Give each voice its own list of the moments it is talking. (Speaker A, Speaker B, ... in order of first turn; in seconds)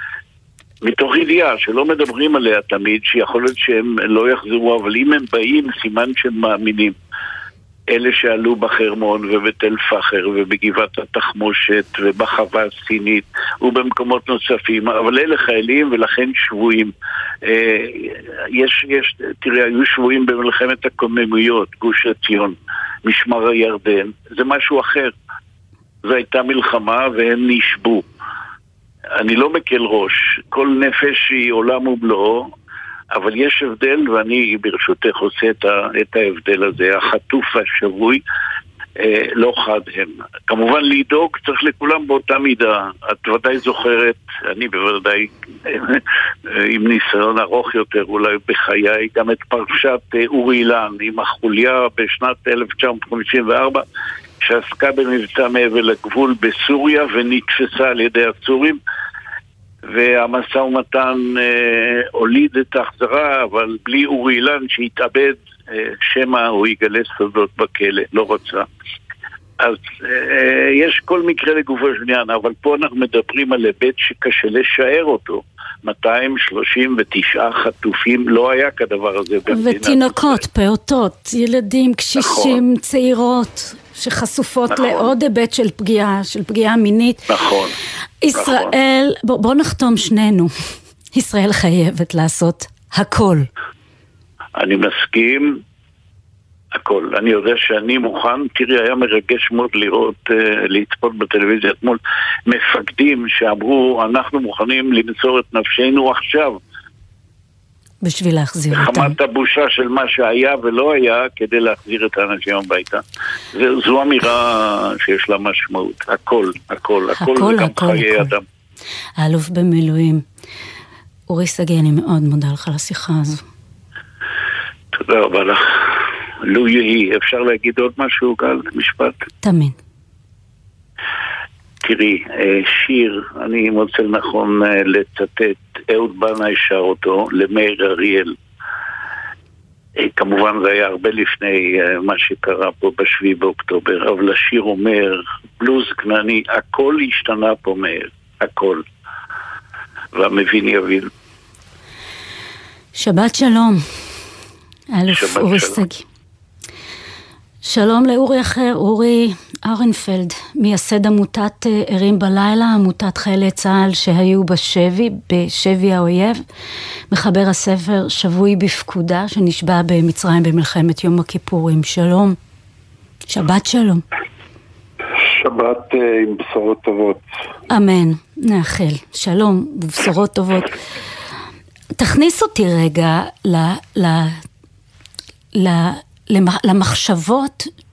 Speaker A: 0.8-7.0, 7.9-16.9, 17.4-25.1, 26.0-28.1, 29.2-32.5, 33.1-38.2, 39.0-53.8, 54.4-58.8, 59.9-68.7, 69.6-80.4, 82.2-82.6, 84.7-85.0, 87.3-87.7, 88.3-88.7, 94.6-95.6, 96.7-106.6, 108.7-113.0, 113.5-118.4, 124.9-125.9, 126.5-129.1, 131.8-138.3, 140.0-148.8, 150.1-151.1, 155.1-155.8
Speaker B: 79.5-87.3, 88.2-90.5, 91.1-93.5, 108.0-109.2, 117.2-118.3, 119.2-120.2, 121.3-123.4, 129.4-129.8, 152.9-153.8, 154.9-156.0, 157.6-166.4, 167.1-172.4, 173.3-174.0, 177.7-180.8, 182.0-184.4, 185.5-187.7
Speaker C: 175.3-177.2